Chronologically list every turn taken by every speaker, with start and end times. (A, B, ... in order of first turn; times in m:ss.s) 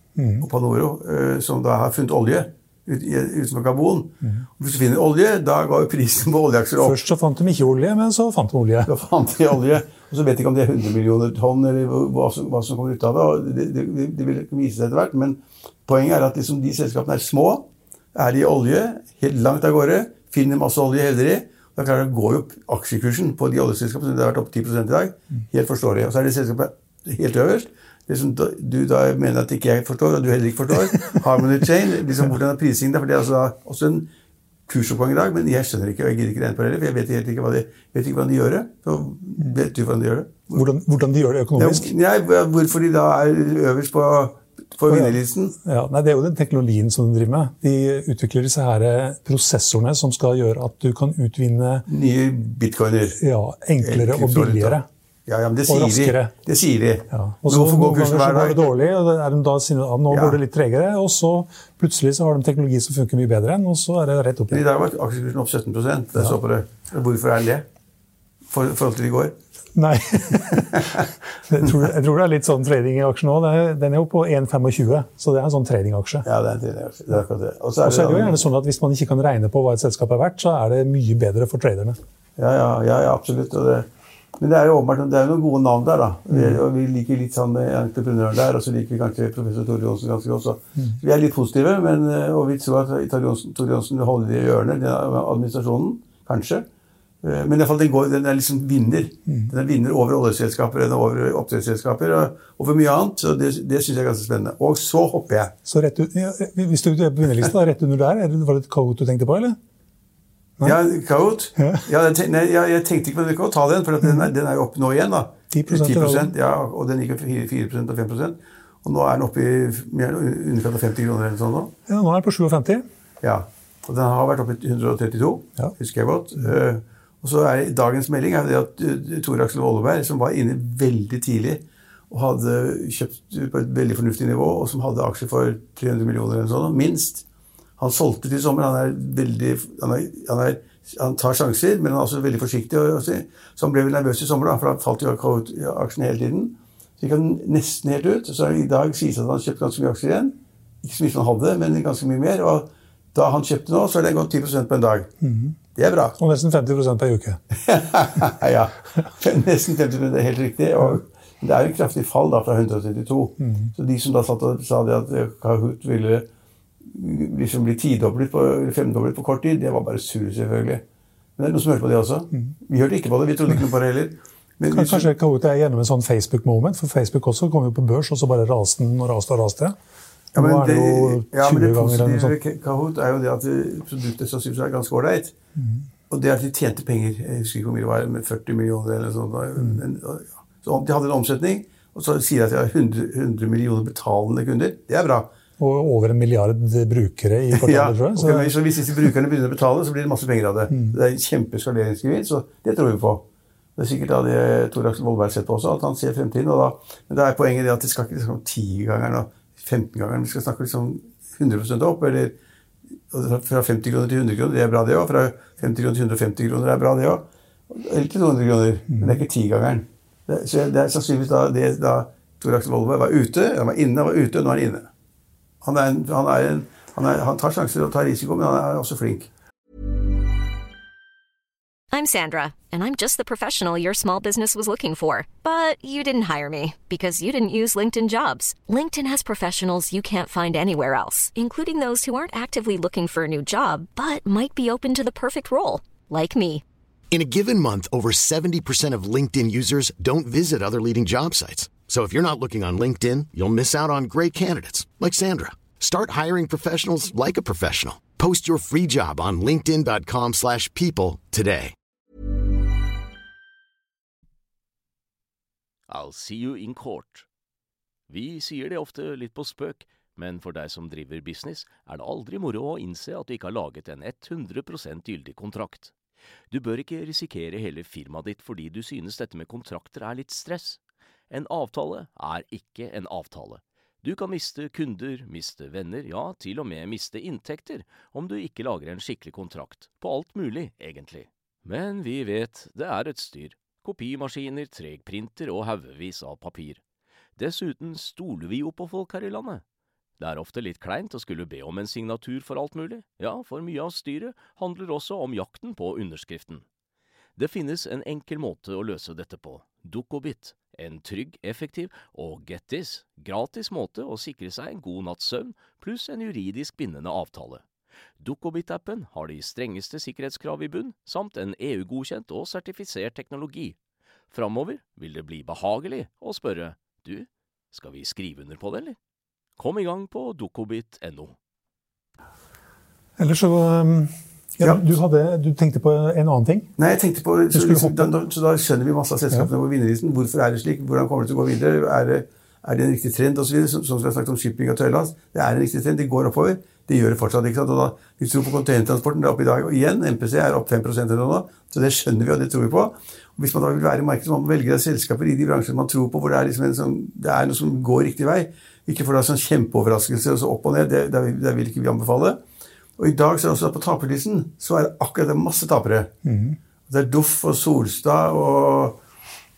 0:00.2-0:00.5 A
0:00.4-0:07.0 B
0:06.8-0:08.9 A
0:08.9-0:34.1 B
0:34.7-0:40.6 B
0:40.5-0:41.9 A
0:41.6-0:45.5 B
0:44.9-0:51.8 A
0:51.9-0:53.2 B
0:53.2-0:54.8 A
0:53.8-0:58.7 B
0:55.7-0:56.3 A
0:57.1-1:04.6 A
1:00.1-1:00.4 B
1:04.5-1:07.6 B
1:08.5-1:09.4 B
1:09.8-1:16.2 A
1:10.5-1:11.0 B
1:16.2-1:18.4 B
1:17.8-1:22.0 A
1:22.4-1:23.8 B
1:24.4-1:36.6 B
1:26.3-1:26.6 A
1:37.2-1:45.5 B
1:45.6-1:49.6 A
1:50.6-2:01.7 B
1:51.6-1:51.8 A
1:54.0-1:54.3 A
1:55.5-1:56.3 A
2:01.9-2:02.8 A
2:03.2-2:17.2 B
2:17.8-2:35.1 B
2:35.2-2:35.6 A
2:35.7-2:36.2 B
2:36.2-2:37.4 A
2:37.6-2:46.2 B
2:43.4-2:43.7 A
2:46.8-2:50.8 B
2:51.4-2:55.1 B
2:54.7-2:59.7 A
3:00.3-3:02.4 A
3:00.3-3:05.3 B
3:05.6-3:05.8 A
3:06.1-3:15.3 B
3:15.6-3:19.0 A
3:17.5-3:23.2 B
3:20.7-3:21.0 A
3:23.8-3:32.3 B
3:33.1-3:44.9 B
3:45.6-3:49.3 B
3:51.9-4:06.6 C
4:07.1-4:21.7 D
4:25.9-4:27.3 E
4:28.1-4:35.9 E
4:36.5-4:56.8 E
4:57.4-4:59.6 E
5:00.2-5:06.6 E
5:07.4-5:17.6 E
5:18.2-5:23.8 E
5:24.3-5:29.0 E
5:29.6-5:31.4 E
5:33.2-5:36.7 A
5:36.8-6:02.4 B
5:37.5-5:38.1 A
6:03.0-6:06.1 B
6:06.2-6:06.6 A
6:06.9-6:09.0 B